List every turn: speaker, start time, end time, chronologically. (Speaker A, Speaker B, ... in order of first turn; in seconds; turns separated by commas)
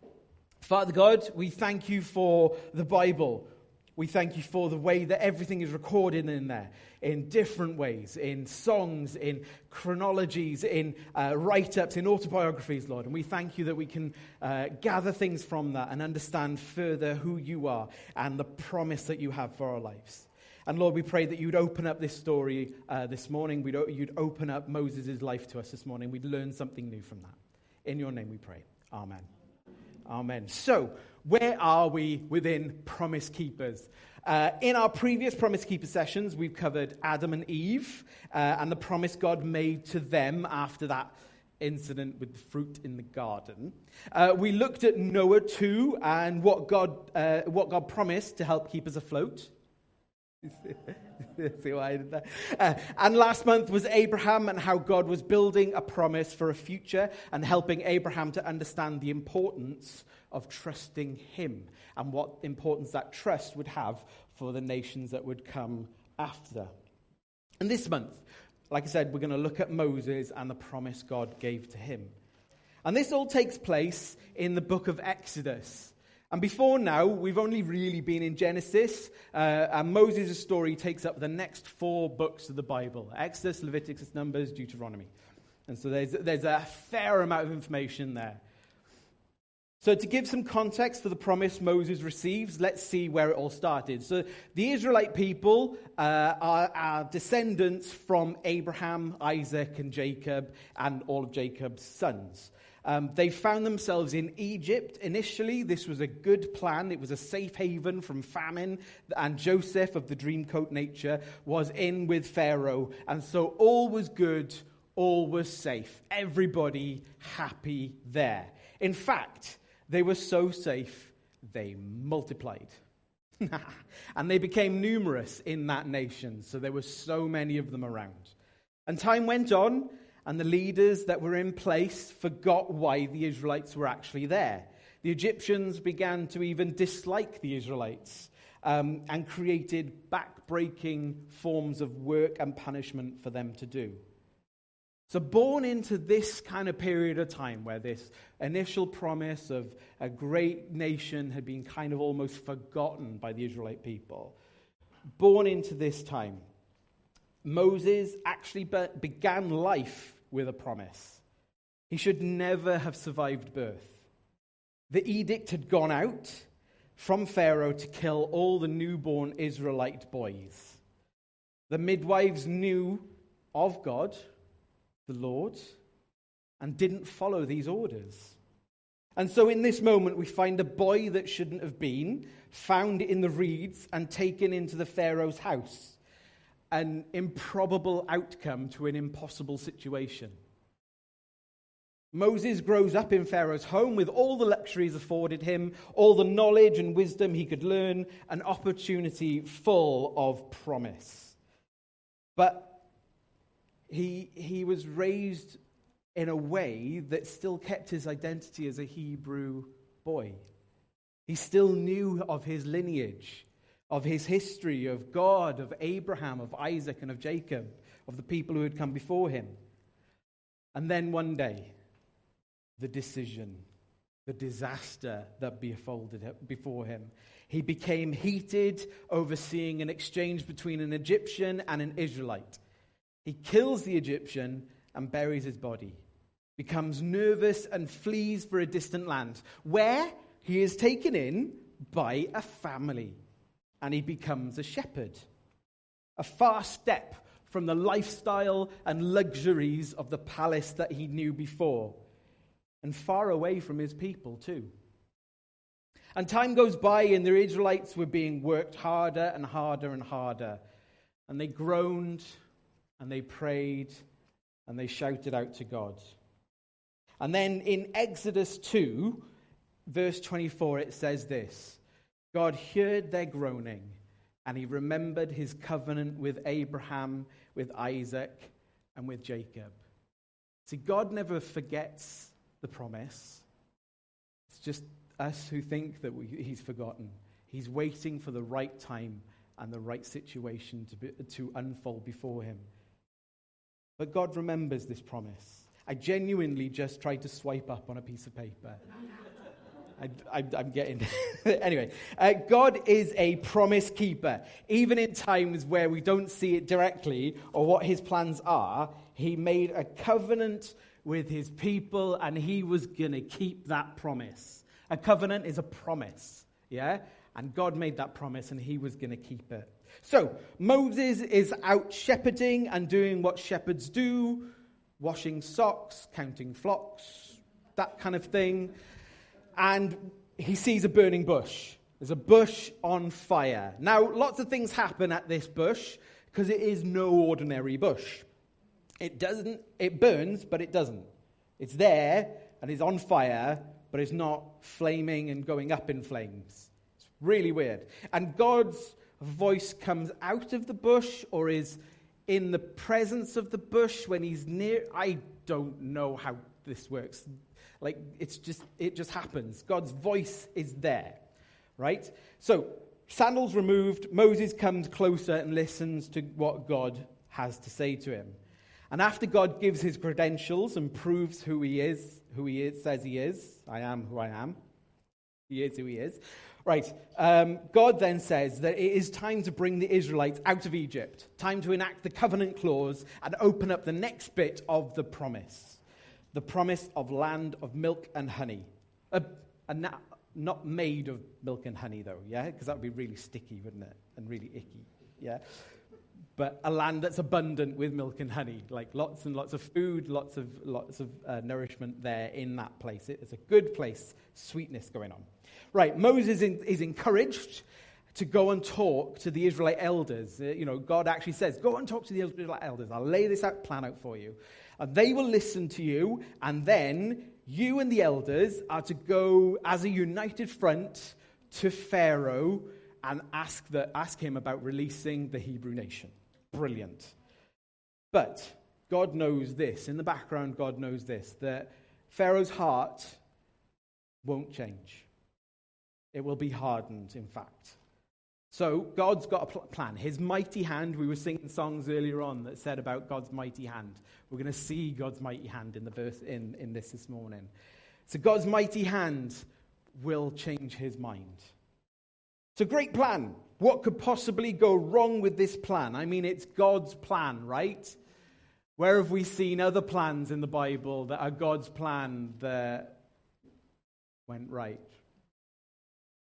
Speaker A: 0.6-29.3, Speaker A: 30.1-49.5, Speaker A: 50.4-66.7, Speaker A: 67.6-72.1, Speaker A: 72.8-85.1, Speaker A: 85.7-88.4, Speaker A: 89.8-122.8, Speaker A: 123.4-128.3, Speaker A: 128.9-144.0, Speaker A: 145.1-154.3, Speaker A: 155.2-156.4, Speaker A: 157.4-161.2, Speaker A: 161.9-164.1, Speaker A: 164.9-170.8, Speaker A: 171.7-174.2, Speaker A: 175.1-175.8, Speaker A: 176.6-178.4, Speaker A: 179.2-186.0, Speaker A: 186.7-190.4, Speaker A: 192.1-201.4, Speaker A: 202.3-202.8, Speaker A: 203.9-205.6, Speaker A: 206.2-210.4, Speaker A: 211.3-219.5, Speaker A: 220.7-221.7, Speaker A: 222.8-223.6, Speaker A: 224.2-232.6, Speaker A: 233.2-236.0, Speaker A: 236.6-243.2, Speaker A: 243.8-245.2, Speaker A: 246.2-252.0, Speaker A: 252.8-254.7, Speaker A: 256.1-260.6, Speaker A: 261.3-262.4, Speaker A: 263.0-264.0, Speaker A: 264.7-266.1, Speaker A: 267.2-269.3, Speaker A: 269.9-271.8, Speaker A: 272.3-279.8, Speaker A: 280.6-283.4, Speaker A: 284.5-292.6, Speaker A: 294.0-298.8, Speaker A: 300.0-328.7, Speaker A: 329.6-338.2, Speaker A: 339.0-341.1, Speaker A: 341.6-357.3, Speaker A: 357.8-361.2, Speaker A: 361.8-368.4, Speaker A: 368.9-374.6, Speaker A: 375.5-385.8, Speaker A: 386.3-395.4, Speaker A: 396.4-427.1, Speaker A: 428.1-433.2, Speaker A: 434.2-435.1, Speaker A: 436.1-437.8, Speaker A: 438.5-447.5, Speaker A: 448.1-451.5, Speaker A: 452.6-457.9, Speaker A: 458.8-463.0, Speaker A: 464.3-464.9